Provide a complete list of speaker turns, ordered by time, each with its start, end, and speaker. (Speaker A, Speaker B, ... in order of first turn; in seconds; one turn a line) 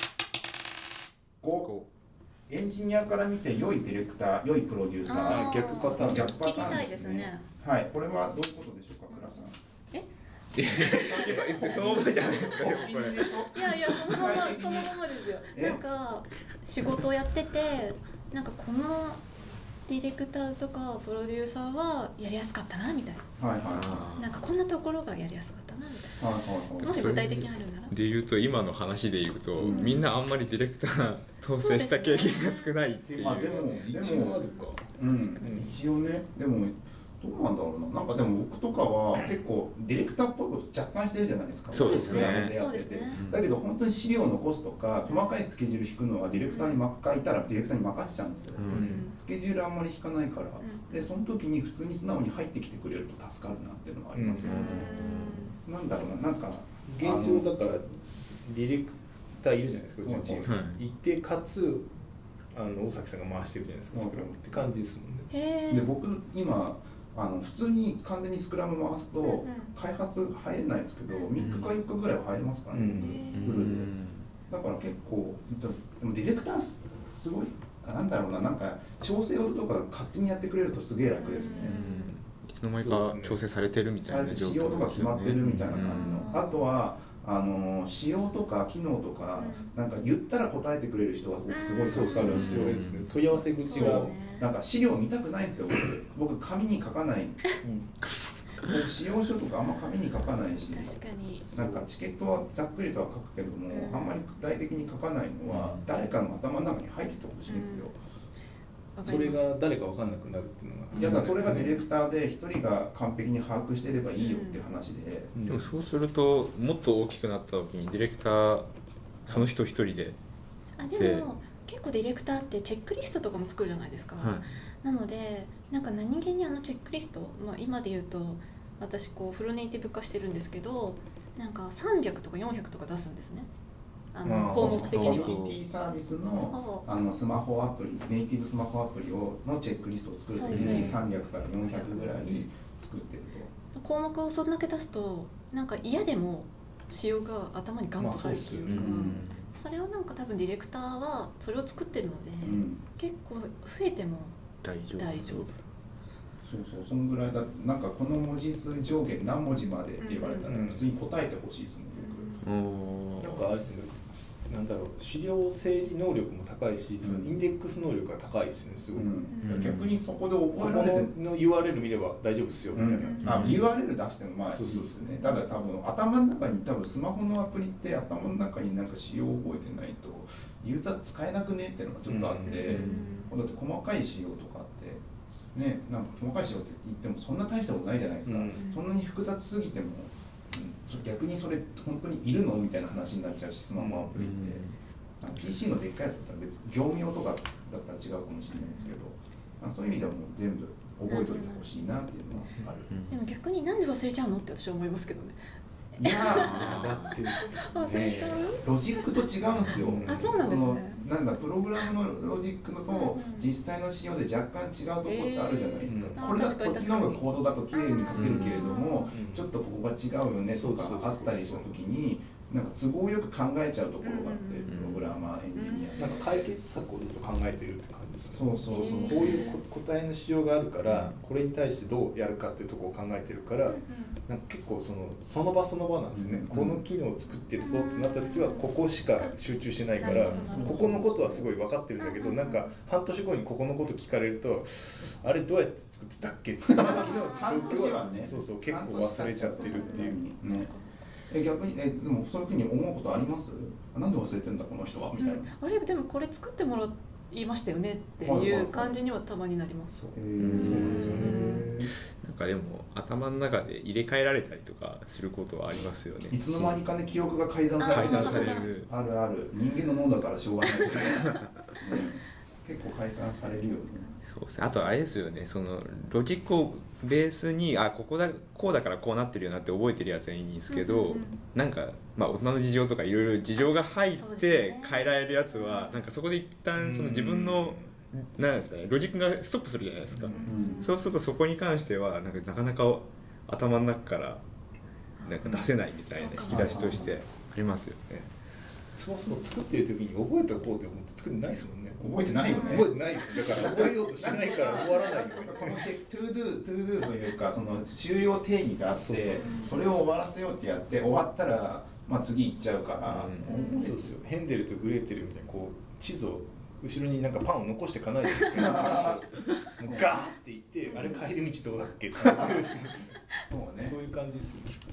Speaker A: 1.4-1.7
Speaker B: 1.6-1.9
Speaker A: 2.5-9.6
Speaker C: 5.1-7.4
Speaker D: 5.2-6.9
Speaker C: 9.1-9.4
Speaker B: 10.6-13.4
Speaker A: 10.7-15.8
Speaker C: 11.0-11.4
Speaker C: 13.5-19.2
Speaker C: 19.9-23.2
Speaker A: 23.4-24.1
Speaker B: 23.7-24.3
Speaker C: 24.2-27.9
Speaker A: 26.2-27.1
Speaker B: 26.8-33.8
Speaker A: 29.6-30.0
Speaker C: 29.7-30.0
Speaker C: 31.5-32.8
Speaker A: 33.2-34.5
Speaker D: 33.9-35.8
Speaker C: 34.4-35.5
Speaker A: 35.0-57.5
Speaker B: 41.7-42.6
Speaker C: 41.8-43.2
Speaker B: 43.1-43.5
Speaker C: 45.0-45.4
Speaker C: 46.5-46.8
Speaker B: 48.6-48.9
Speaker D: 48.7-49.1
Speaker C: 48.8-49.1
Speaker C: 50.6-51.1
Speaker D: 54.1-54.6
Speaker C: 54.5-55.6
Speaker B: 54.5-55.5
Speaker D: 56.9-61.9
Speaker A: 60.0-60.5
Speaker B: 60.5-60.8
Speaker D: 62.5-65.3
Speaker A: 63.9-64.3
Speaker C: 65.3-65.9
Speaker A: 65.7-73.9
Speaker C: 69.2-69.7
Speaker B: 71.4-71.8
Speaker D: 72.7-73.2
Speaker C: 73.0-73.7
Speaker B: 73.3-74.3
Speaker A: 74.5-81.8
Speaker C: 81.2-82.1
Speaker B: 81.6-86.2
Speaker D: 82.7-83.4
Speaker A: 84.0-92.7
Speaker C: 85.8-86.6
Speaker C: 89.4-89.7
Speaker C: 91.5-92.8
Speaker D: 91.8-94.1
Speaker B: 92.2-93.1
Speaker C: 93.6-94.5
Speaker A: 93.7-97.4
Speaker D: 97.6-97.9
Speaker A: 98.6-108.0
Speaker C: 100.7-101.5
Speaker D: 101.5-101.8
Speaker C: 103.7-104.2
Speaker B: 105.5-105.9
Speaker C: 107.5-107.9
Speaker C: 109.0-109.6
Speaker D: 109.0-111.8
Speaker A: 110.9-115.3
Speaker C: 114.2-114.6
Speaker D: 115.3-115.7
Speaker B: 115.5-118.7
Speaker B: 119.3-120.2
Speaker C: 120.8-133.5
Speaker B: 120.9-121.3
Speaker B: 124.2-124.5
Speaker C: 134.1-135.4
Speaker D: 134.2-134.8
Speaker A: 134.5-143.5
Speaker B: 134.6-135.6
Speaker C: 136.3-136.8
Speaker C: 140.3-141.0
Speaker B: 140.5-141.0
Speaker C: 141.7-142.2
Speaker C: 143.8-154.4
Speaker D: 148.0-149.1
Speaker B: 148.7-149.5
Speaker A: 148.8-149.3
Speaker A: 152.4-152.8
Speaker B: 154.6-155.6
Speaker C: 154.9-155.6
Speaker A: 156.4-162.3
Speaker C: 160.0-160.5
Speaker D: 160.5-160.9
Speaker C: 161.9-162.4
Speaker B: 162.4-163.5
Speaker D: 163.2-169.7
Speaker A: 167.0-167.4
Speaker A: 168.9-171.1
Speaker C: 169.3-169.6
Speaker B: 169.5-169.9
Speaker D: 170.6-173.6
Speaker A: 172.7-185.0
Speaker C: 173.0-173.4
Speaker B: 173.2-173.7
Speaker D: 174.5-175.0
Speaker D: 182.1-182.9
Speaker C: 182.5-183.3
Speaker B: 182.7-183.0
Speaker A: 185.5-194.6
Speaker D: 188.2-188.7
Speaker C: 188.5-188.8
Speaker D: 193.8-194.1
Speaker B: 194.1-194.8
Speaker A: 195.2-202.9
Speaker C: 198.6-198.9
Speaker C: 201.1-201.7
Speaker B: 202.6-203.2
Speaker C: 203.1-205.4
Speaker A: 206.0-206.8
Speaker C: 206.0-209.1
Speaker B: 206.3-207.1
Speaker D: 206.5-208.5
Speaker A: 208.6-226.5
Speaker D: 209.7-210.4
Speaker C: 210.0-211.0
Speaker C: 212.9-213.5
Speaker C: 215.0-219.1
Speaker D: 215.9-216.3
Speaker B: 218.1-218.7
Speaker D: 219.1-219.5
Speaker D: 220.5-221.7
Speaker C: 224.0-224.7
Speaker B: 224.7-225.1
Speaker C: 225.5-226.3
Speaker D: 226.0-250.2
Speaker A: 228.3-229.4
Speaker C: 228.7-229.6
Speaker B: 230.8-231.2
Speaker C: 233.6-234.2
Speaker A: 236.1-236.8
Speaker C: 237.6-239.4
Speaker C: 240.0-240.9
Speaker A: 240.3-241.5
Speaker C: 242.0-242.7
Speaker A: 246.7-250.7
Speaker C: 246.9-247.9
Speaker C: 249.6-251.1
Speaker A: 251.3-255.5
Speaker C: 255.2-260.0
Speaker A: 258.2-259.0
Speaker D: 260.0-261.5
Speaker A: 260.1-261.9
Speaker B: 260.4-261.4
Speaker C: 260.6-261.7
Speaker B: 262.2-267.1
Speaker A: 266.3-274.1
Speaker C: 267.8-268.7
Speaker B: 267.9-268.9
Speaker C: 273.8-274.1
Speaker B: 274.2-294.4
Speaker C: 280.7-281.4
Speaker C: 284.1-286.1
Speaker D: 286.8-287.9
Speaker D: 290.1-290.5
Speaker C: 290.3-291.0
Speaker A: 290.5-290.8
Speaker C: 295.2-297.2
Speaker B: 295.2-298.3
Speaker A: 296.5-297.2
Speaker D: 298.9-302.0
Speaker A: 302.0-314.2
Speaker C: 302.5-303.4
Speaker D: 302.6-305.9
Speaker C: 304.5-305.7
Speaker D: 308.9-309.5
Speaker C: 309.3-310.0
Speaker B: 313.1-313.6
Speaker C: 313.5-313.9
Speaker D: 313.8-323.2
Speaker A: 318.5-319.2
Speaker A: 319.8-320.3
Speaker C: 320.9-321.2
Speaker A: 322.2-322.7
Speaker A: 323.4-324.0
Speaker D: 323.8-324.8